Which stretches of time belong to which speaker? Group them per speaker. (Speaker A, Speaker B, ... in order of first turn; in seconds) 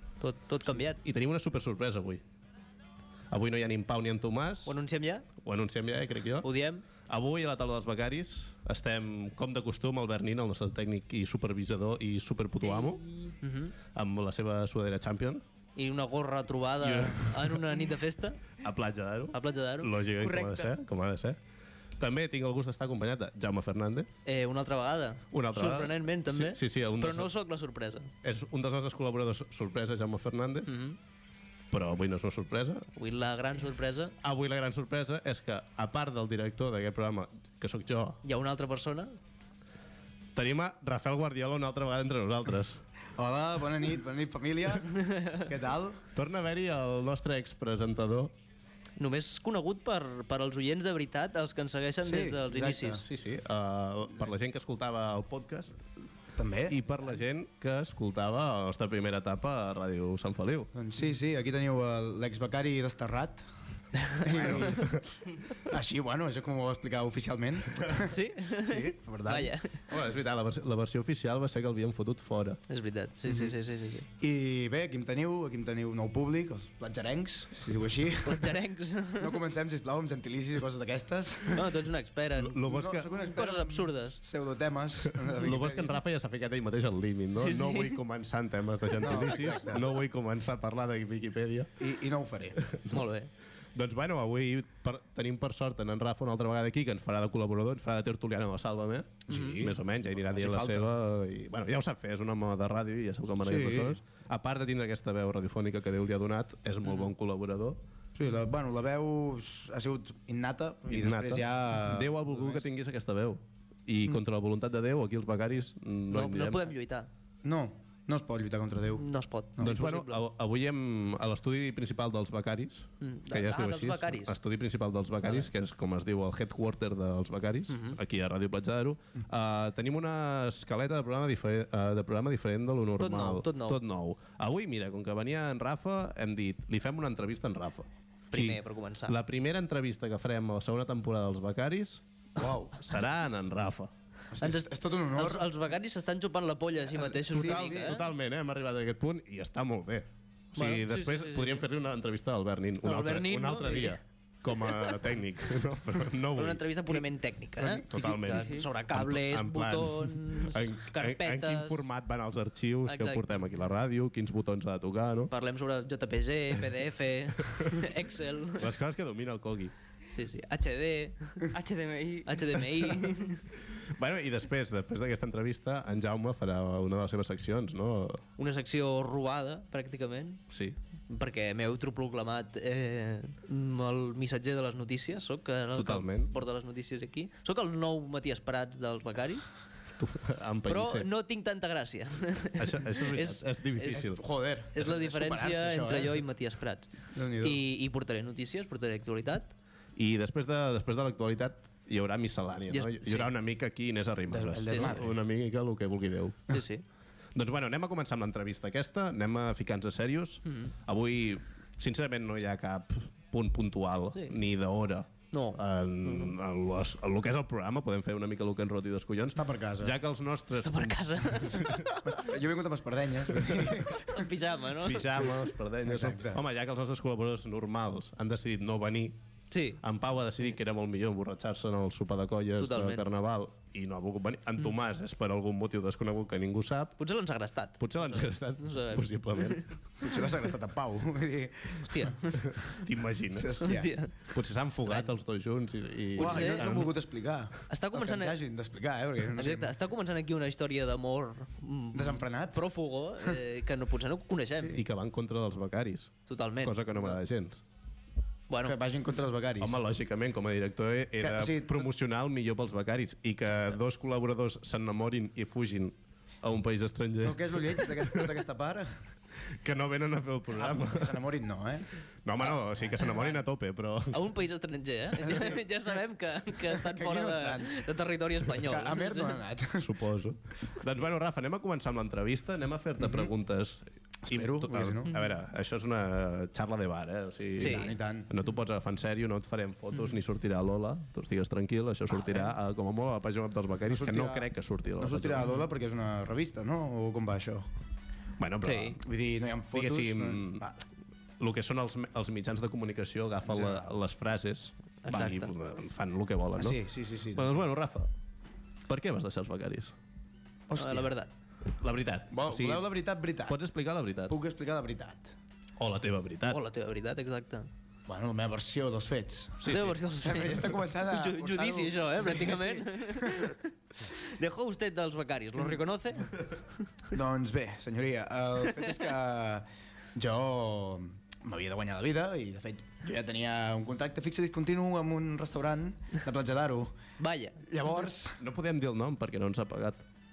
Speaker A: 0.2-1.0, 4.6-5.2, 6.4-6.8, 13.4-13.7, 15.8-18.4, 19.3-20.3, 24.2-28.1, 30.6-31.0, 33.0-34.1, 38.2-39.1, 45.0-45.4, 49.0-53.0, 64.0-64.5, 68.0-69.8, 72.7-74.1, 78.2-79.4, 81.5-84.2, 87.3-88.0, 92.9-93.3, 99.3-99.6, 106.8-107.1, 116.1-117.1, 119.0-120.2, 123.0-124.3, 125.2-125.5, 127.7-128.0, 133.0-133.8, 138.3-139.1, 144.4-148.0, 150.6-151.6, 152.8-155.0, 156.3-161.8, 162.9-163.3, 165.3-168.7, 170.1-171.5, 172.2-173.4, 178.4-180.4, 181.1-189.5, 190.7-194.0, 194.7-199.5, 202.7-203.3, 204.7-205.0, 206.5-206.8, 210.4-210.7, 215.3-216.3, 220.5-222.3, 223.9-225.4, 229.5-229.8, 232.6-233.1, 237.0-239.7, 241.8-242.8, 243.6-244.3, 244.8-245.1, 246.2-246.7, 247.7-248.3, 249.3-254.8, 256.3-257.2, 258.5-258.8, 272.4-273.4, 274.1-279.4, 285.1-285.3, 287.6-287.9, 298.6-299.0, 305.0-305.5, 310.8-311.3, 316.5-317.7, 319.6-326.5, 337.2-337.6
Speaker B: 0.9-2.2, 3.3-4.7, 5.4-6.5, 7.0-13.0, 13.9-15.4, 16.8-17.8, 18.6-21.4, 22.0-24.1, 25.3-27.3, 28.2-30.7, 31.7-32.9, 34.2-38.2, 40.4-42.8, 46.1-48.3, 53.0-55.8, 56.7-60.7, 64.3-65.0, 69.9-72.6, 82.4-83.1, 85.3-91.7, 92.6-93.0, 93.7-107.8, 110.9-116.7, 119.6-142.0, 142.8-143.9, 147.3-157.0, 157.6-165.3, 168.6-169.7, 173.8-178.2, 180.5-180.8, 185.7-186.4, 190.0-191.1, 192.5-194.2, 199.9-206.6, 207.3-221.8, 223.3-223.9, 224.8-229.1, 229.8-237.0, 237.8-239.8, 242.7-243.6, 244.2-246.9, 254.7-257.6, 259.6-268.3, 269.6-271.2, 272.2-274.2, 279.8-295.5, 298.4-299.0, 299.7-300.7, 301.4-306.8, 307.3-308.1, 308.9-309.9, 311.8-312.9, 313.4-314.4, 315.8-316.6, 319.6-320.0, 338.4-340.0
Speaker C: 20.3-20.6, 158.3-158.7, 171.5-172.9
Speaker D: 43.1-46.0, 52.0-53.0, 56.4-56.8, 60.7-63.5, 64.1-65.1, 65.6-69.5, 73.3-73.5, 74.2-78.5, 79.2-81.7, 82.6-86.0, 89.0-89.8, 91.8-92.6, 99.3-100.9, 103.4-104.0, 108.2-112.7, 117.4-119.7, 142.4-142.8, 144.3-145.5, 146.9-148.0, 193.9-196.2, 197.1-197.6, 204.3-205.2, 219.3-219.9, 222.1-224.1, 225.8-226.4, 240.0-242.1, 243.3-243.9, 246.1-249.7, 251.9-252.6, 258.6-259.8, 261.2-261.9, 267.2-268.9, 270.5-271.9, 275.2-275.6, 276.7-277.9, 278.4-280.0, 283.0-283.3, 284.2-285.1, 287.6-288.3, 292.1-292.6, 293.9-297.7, 298.9-300.8, 303.4-303.9, 306.6-307.6, 310.7-311.1, 312.3-313.6, 314.3-315.4, 318.1-319.6, 320.2-323.5, 327.1-336.9, 337.6-338.4